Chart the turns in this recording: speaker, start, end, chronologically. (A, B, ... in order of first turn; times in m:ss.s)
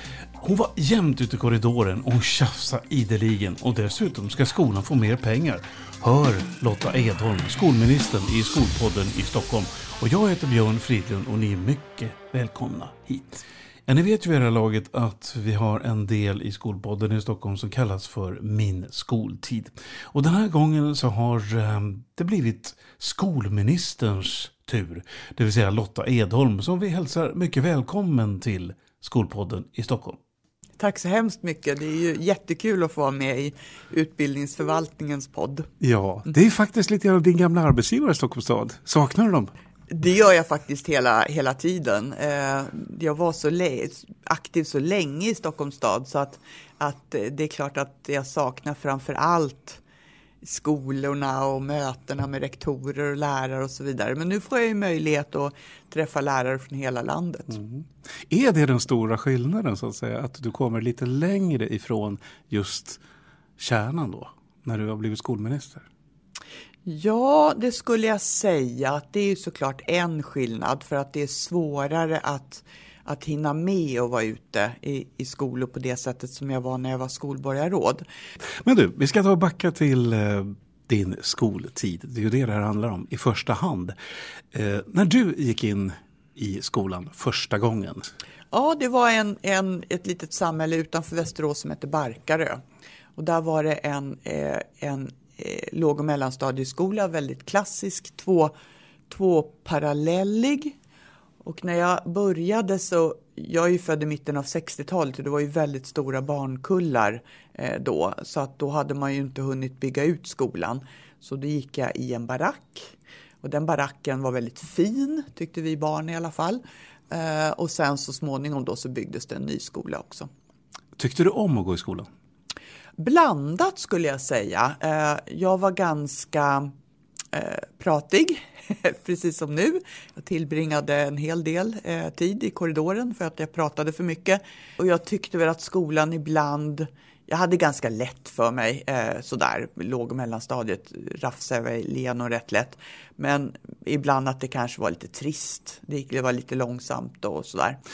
0:00.4-0:30.2 A
0:30.8-0:35.7 B
0:35.8-0:39.5 A
0:39.9-0:49.8 B
0:50.4-0:57.6 B
0:57.5-1:03.0 A
1:03.6-1:05.9 A
1:06.9-1:18.0 B
1:18.6-1:24.0 A
1:24.5-1:28.1 A
1:28.5-1:32.6 B
1:33.2-1:38.5 B
1:39.1-1:40.7 B
1:41.4-2:00.3 B
2:01.0-2:02.1 A
2:03.0-2:06.7 B
2:07.3-2:27.8 B